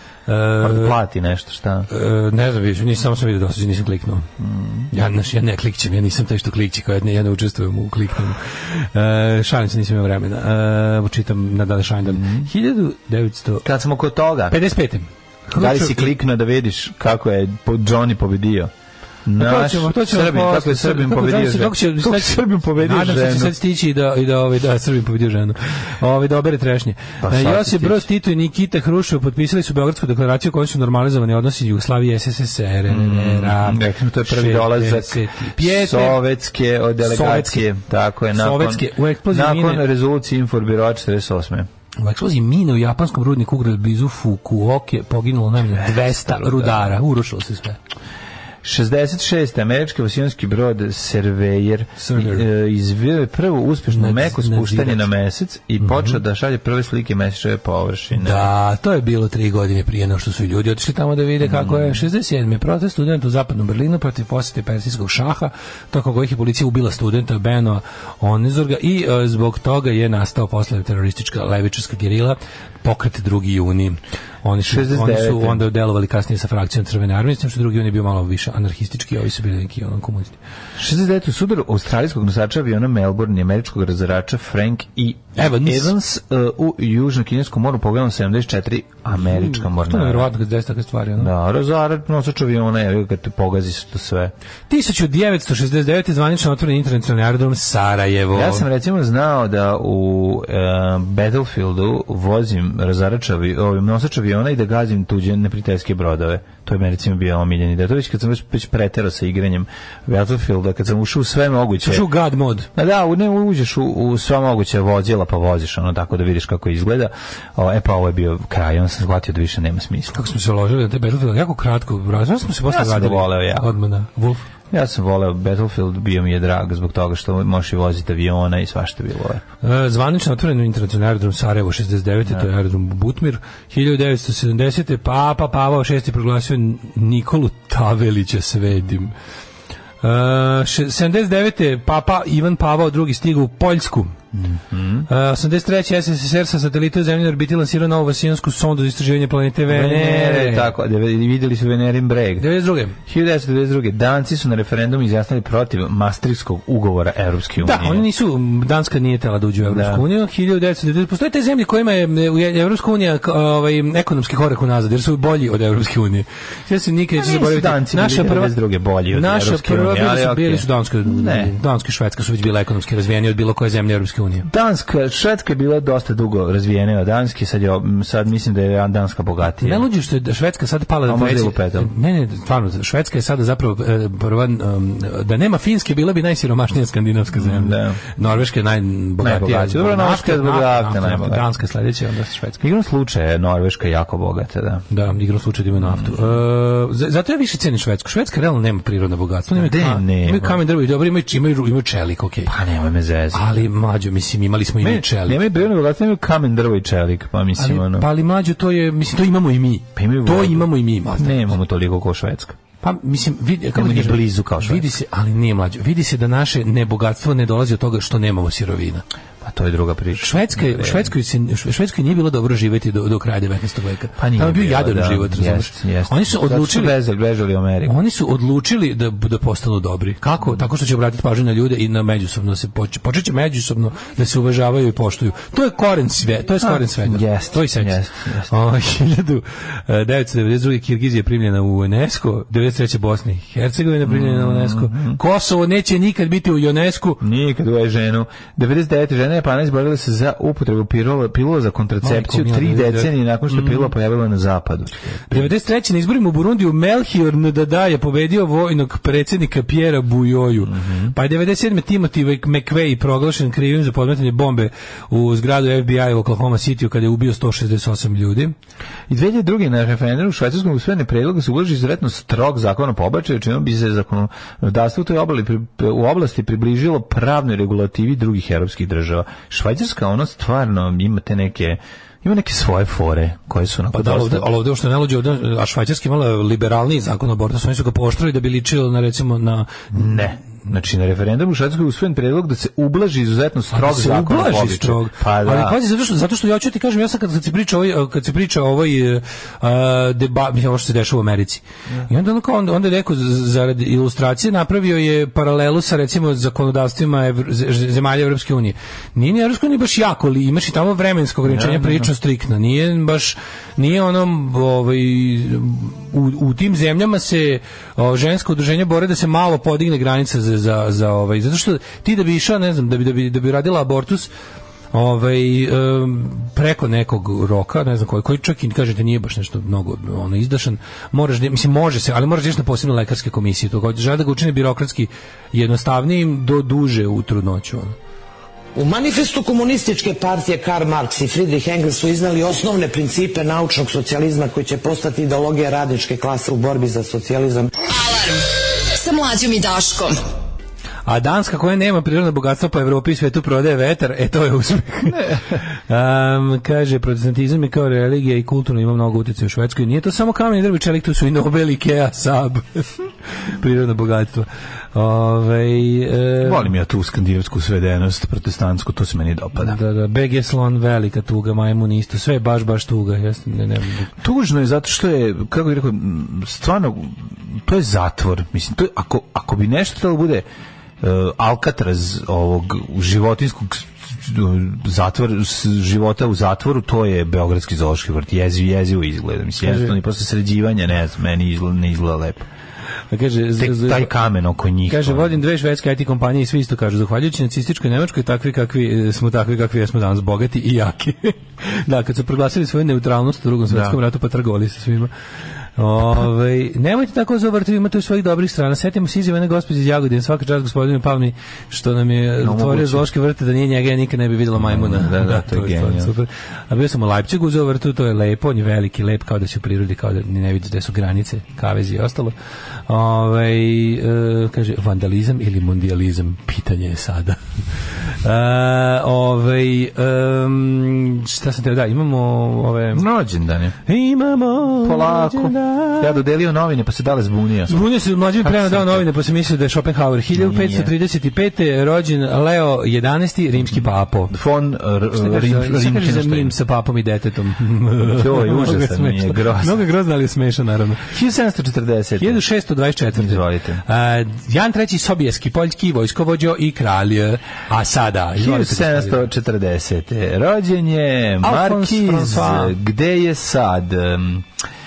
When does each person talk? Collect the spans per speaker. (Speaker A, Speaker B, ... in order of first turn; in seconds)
Speaker A: 0.3-1.0, 1.9-4.3, 4.9-13.6, 14.5-16.1, 19.4-36.2, 37.0-37.6, 38.3-39.8, 42.0-47.8, 52.0-52.4, 53.9-55.1, 55.8-56.2, 58.1-80.4, 85.3-85.9, 89.2-91.3, 94.7-98.6, 111.8-112.7, 120.1-124.4, 129.6-139.1, 140.0-144.1, 145.1-150.7, 152.4-152.9, 157.6-168.5, 169.1-174.5, 179.6-192.6, 194.9-202.5, 203.3-205.4, 207.6-211.5, 212.8-219.0, 220.2-226.9, 227.8-247.2, 252.0-253.9, 255.3-268.5, 283.9-289.9, 293.7-324.3, 324.9-337.9, 351.1-362.9, 363.6-366.7, 369.6-374.1, 389.6-389.9, 393.1-394.1, 394.9-405.1, 405.8-422.3, 422.9-427.4, 428.2-433.0, 433.9-436.1, 437.7-444.3, 445.1-451.1, 452.2-459.3, 461.4-462.7
Speaker B: 0.6-1.9, 4.4-4.9, 12.1-12.5, 13.6-14.6, 15.5-18.7, 19.2-23.5, 27.2-28.1, 32.9-41.7, 45.7-46.9, 48.6-58.5, 61.4-62.0, 74.6-75.6, 80.8-90.3, 91.2-94.3, 98.3-112.1, 112.7-120.2, 122.7-123.7, 124.7-129.4, 144.3-145.1, 149.7-152.5, 153.0-158.1, 159.6-160.0, 167.2-171.5, 174.4-179.8, 181.1-181.9, 187.3-188.0, 189.2-191.5, 192.6-194.8, 195.8-196.3, 199.5-200.6, 202.4-203.6, 204.8-208.1, 209.9-212.6, 213.7-214.9, 219.4-221.1, 224.2-227.9, 236.6-238.5, 244.0-245.2, 247.2-255.5, 260.6-261.1, 269.1-284.5, 289.9-295.8, 311.4-312.1, 366.4-369.8, 374.2-380.4, 381.0-392.5, 393.6-395.4, 403.7-404.0, 412.4-413.1, 414.6-416.1, 432.9-433.8, 434.8-437.7, 438.4-439.1, 440.3-440.9, 443.7-446.5, 448.0-449.8, 451.1-452.4, 453.1-453.8, 458.3-464.5
Speaker C: 338.8-347.7
Speaker D: 347.9-350.2